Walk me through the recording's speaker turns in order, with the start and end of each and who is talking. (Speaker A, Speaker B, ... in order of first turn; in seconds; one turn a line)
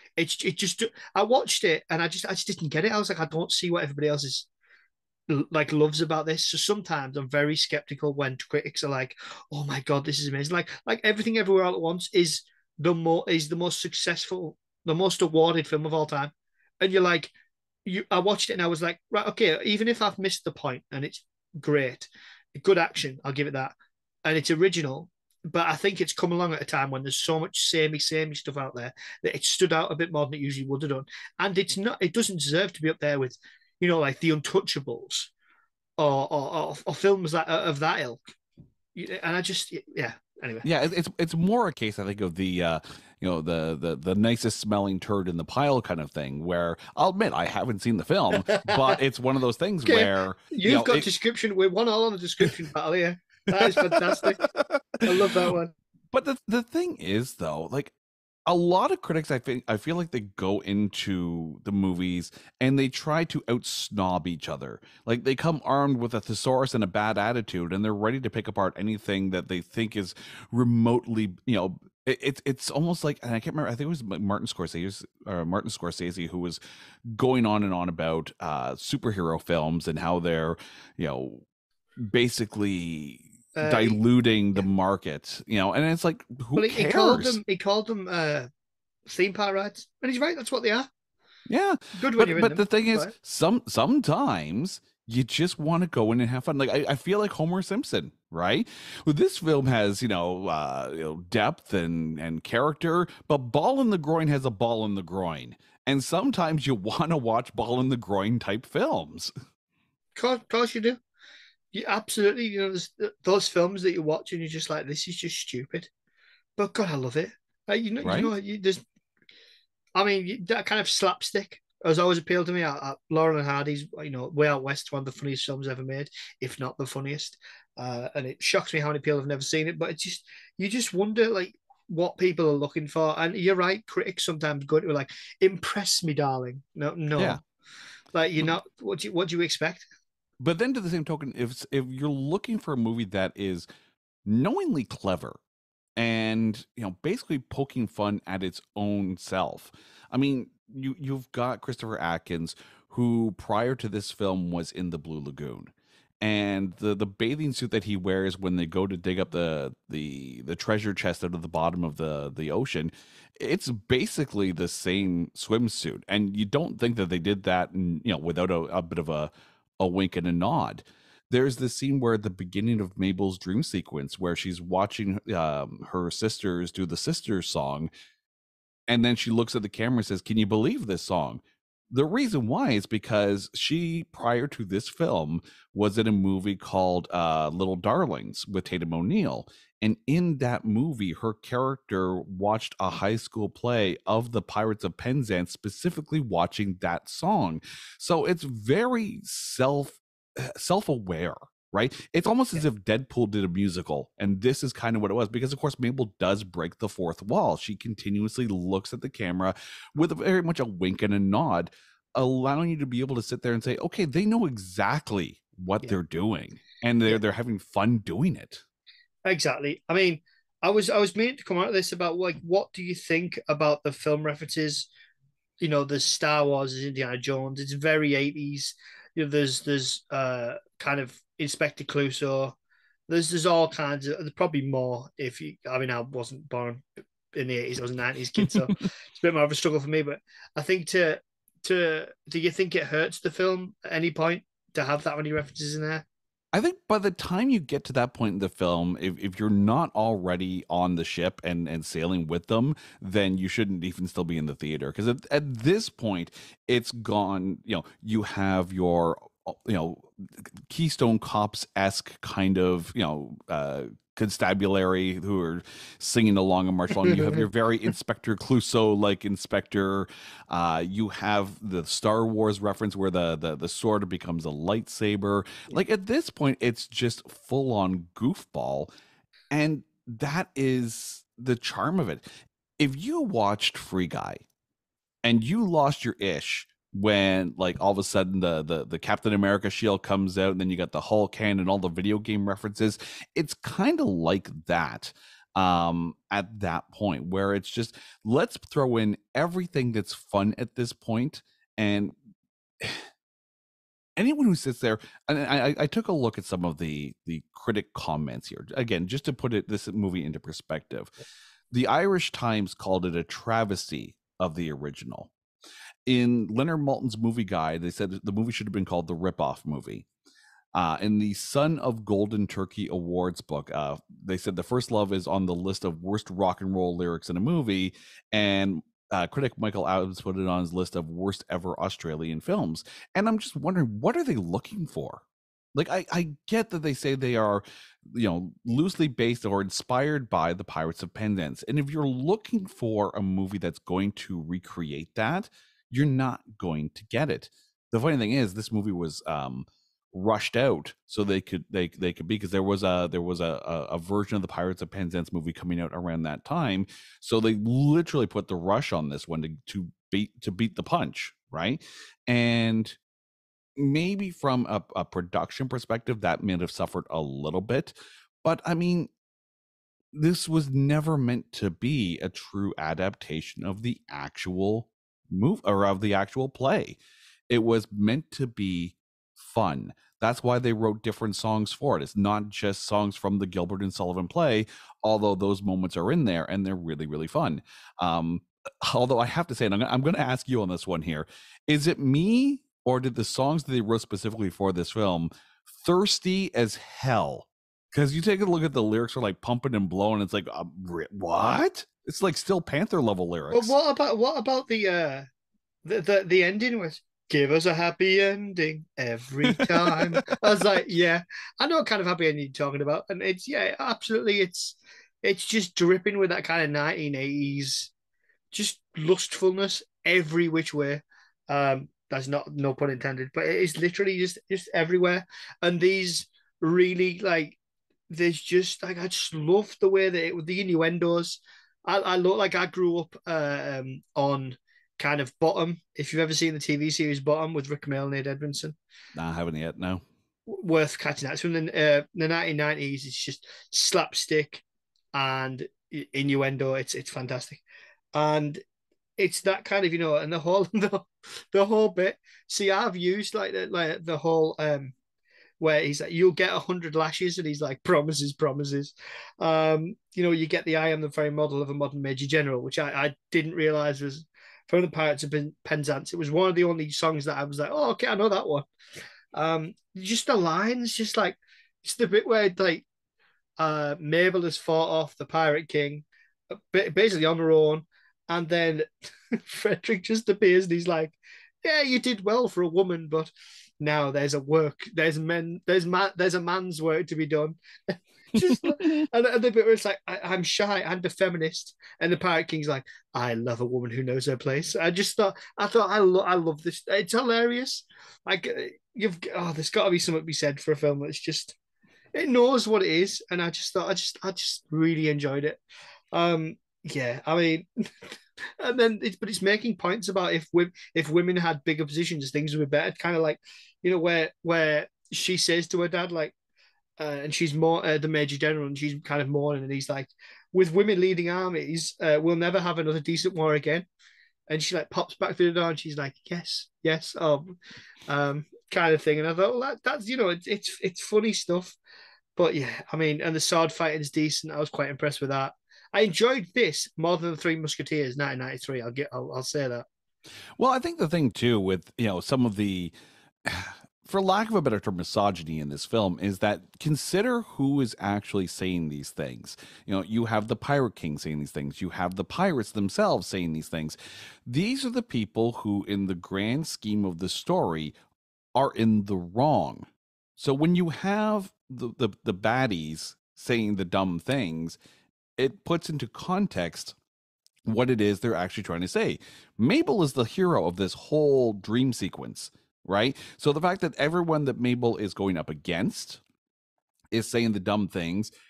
Speaker A: 0.2-4.5
Speaker A: 5.3-17.3
Speaker A: 17.9-23.7
Speaker A: 24.2-35.3
Speaker A: 36.0-38.3
Speaker A: 39.0-40.7
Speaker B: 40.6-51.1
Speaker A: 48.4-49.0
Speaker A: 49.9-54.5
Speaker B: 53.5-55.0
Speaker A: 55.0-55.7
Speaker B: 56.1-57.9
Speaker B: 58.5-81.4
Speaker B: 82.0-87.4
Speaker A: 83.6-84.0
Speaker A: 86.6-88.5
Speaker A: 89.1-90.9
Speaker B: 91.5-109.3
Speaker A: 92.0-93.1
Speaker A: 110.2-111.0
Speaker A: 111.7-115.9
Speaker A: 116.6-118.8
Speaker B: 118.0-118.3
Speaker A: 120.0-137.4
Speaker A: 138.1-139.9
Speaker B: 140.4-143.7
Speaker B: 144.2-145.4
Speaker B: 146.0-177.9
Speaker B: 178.9-218.6
Speaker A: 219.2-224.9
Speaker A: 225.6-232.6
Speaker A: 233.1-246.1
Speaker B: 246.5-278.9
Speaker B: 279.5-282.2
Speaker B: 282.8-284.4
Speaker B: 285.2-302.1
Speaker B: 302.8-303.1
Speaker B: 304.2-311.1
Speaker B: 311.7-315.3
Speaker B: 316.1-320.1
Speaker B: 320.8-335.2
Speaker B: 335.8-363.0
Speaker B: 363.8-369.1
Speaker B: 370.1-377.0
Speaker B: 377.5-403.8
Speaker A: 403.5-405.3
Speaker A: 405.9-417.9
Speaker B: 409.5-410.3
Speaker A: 418.5-427.6
Speaker A: 428.1-438.8
Speaker B: 439.2-440.0
Speaker A: 440.5-444.6
Speaker A: 445.1-447.6
Speaker A: 448.1-448.6
Speaker A: 449.2-454.9
Speaker A: 455.6-468.7
Speaker A: 469.3-472.9
Speaker A: 473.6-501.6
Speaker B: 488.4-489.0
Speaker A: 502.1-505.6
Speaker A: 506.1-507.7
Speaker A: 508.6-516.3
Speaker A: 517.0-523.9
Speaker A: 524.5-531.8
Speaker A: 532.4-539.9
Speaker B: 540.6-542.9
Speaker B: 543.5-558.0
Speaker B: 558.5-564.8
Speaker B: 565.4-567.0
Speaker B: 567.6-576.2
Speaker B: 577.1-578.3